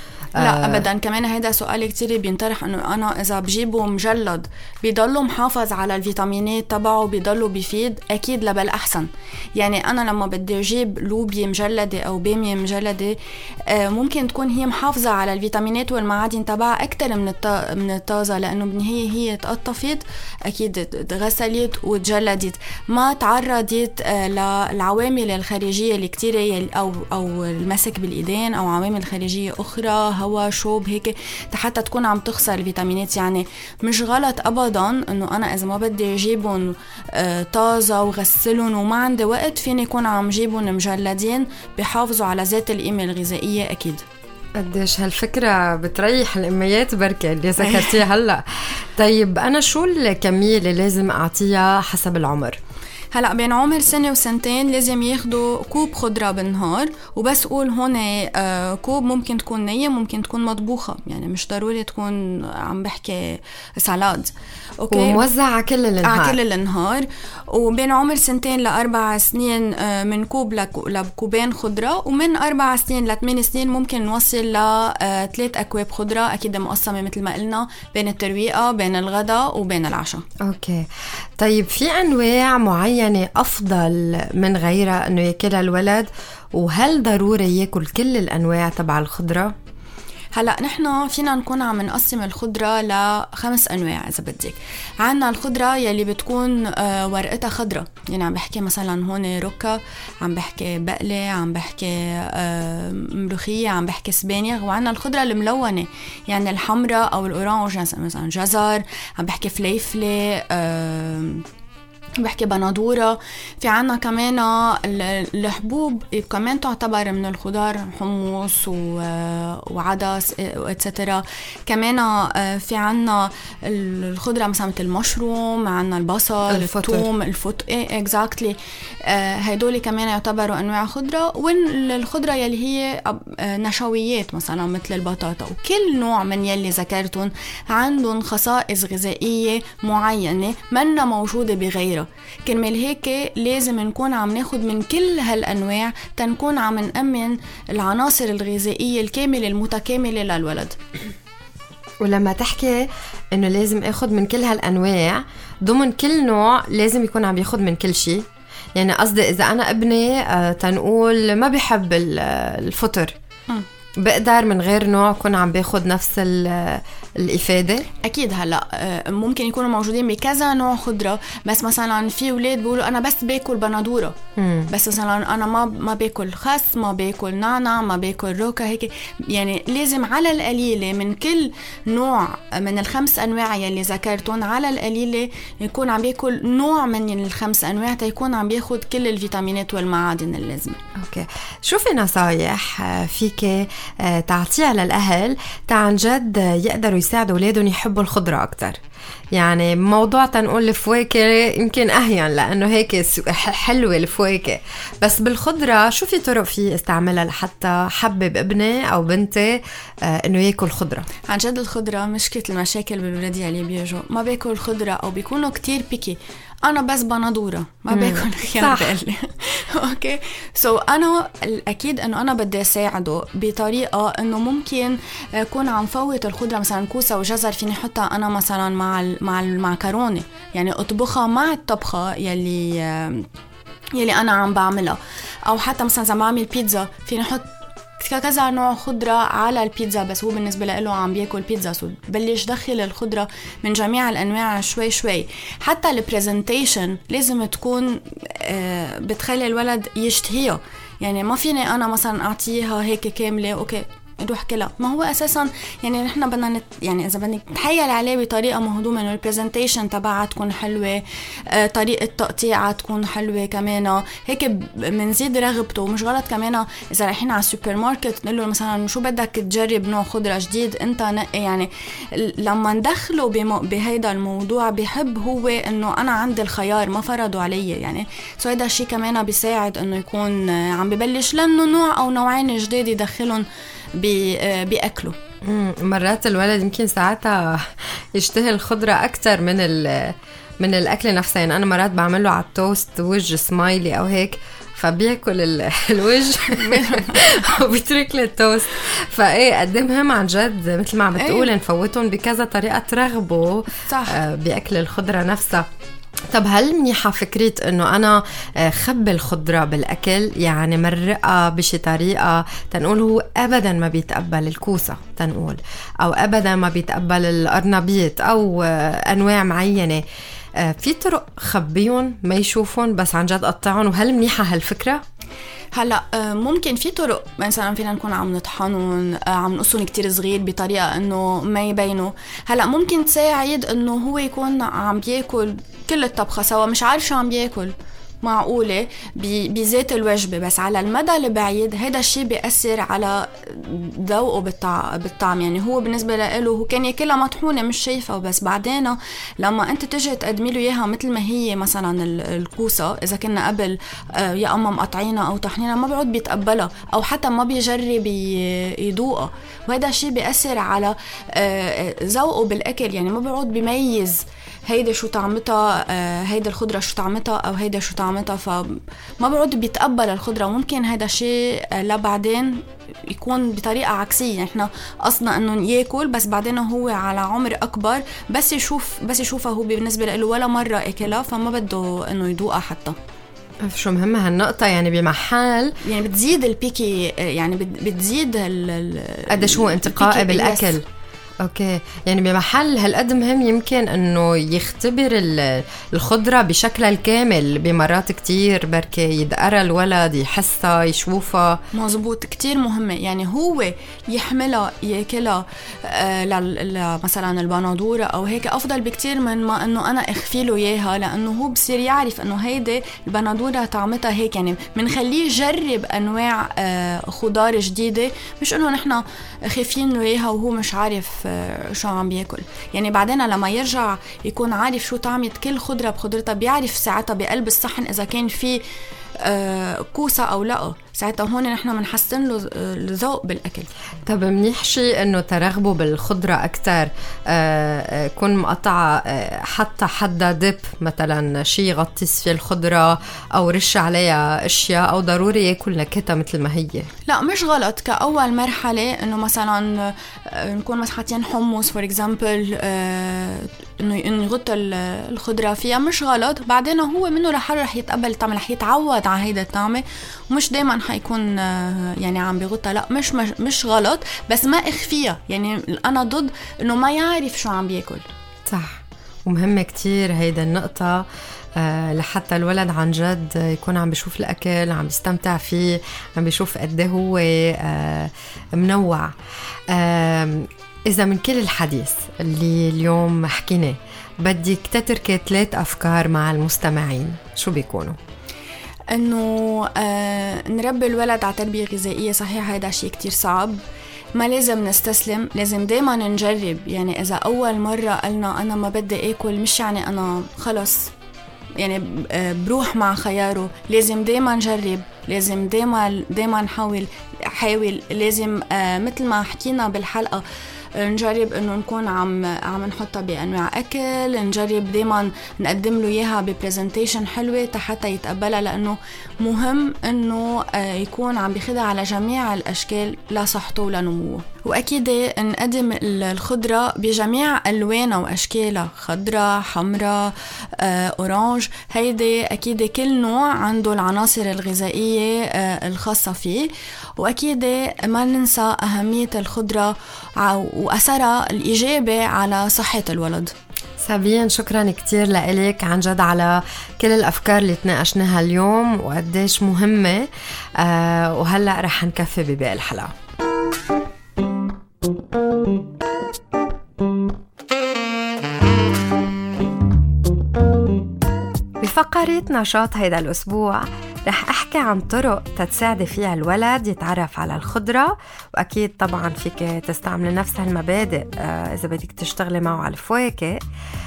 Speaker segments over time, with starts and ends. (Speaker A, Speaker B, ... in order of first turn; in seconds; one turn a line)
Speaker A: 0.4-0.9
Speaker B: 0.4-44.0
Speaker A: 44.6-52.6
Speaker B: 47.6-48.0
Speaker B: 53.1-65.2
Speaker A: 64.9-66.4
Speaker B: 66.0-80.2
Speaker A: 80.4-89.5
Speaker B: 90.3-111.4
Speaker B: 112.2-150.8
Speaker A: 126.5-127.1
Speaker A: 152.0-163.2
Speaker A: 164.0-167.9
Speaker B: 168.0-174.2
Speaker A: 174.4-174.7
Speaker B: 174.7-190.8
Speaker A: 190.9-198.8
Speaker A: 199.3-211.1
Speaker B: 211.3-233.3
Speaker A: 217.9-218.9
Speaker B: 233.9-285.2
Speaker A: 285.4-305.7
Speaker B: 296.5-297.4
Speaker B: 301.2-301.5
Speaker B: 303.9-304.2
Speaker A: 306.3-320.0
Speaker A: 320.6-325.0
Speaker B: 325.7-383.0
Speaker A: 383.6-385.8
Speaker B: 385.9-390.8
Speaker A: 389.3-390.8
Speaker A: 391.4-401.6
Speaker B: 401.7-428.6
Speaker B: 429.2-433.7
Speaker A: 434.1-446.9
Speaker B: 447.1-468.1
Speaker A: 468.5-479.1
Speaker A: 479.7-488.0
Speaker B: 488.9-493.6
Speaker B: 494.1-500.9
Speaker B: 501.6-510.2
Speaker B: 510.8-543.3
Speaker A: 543.8-552.9
Speaker A: 561.6-573.4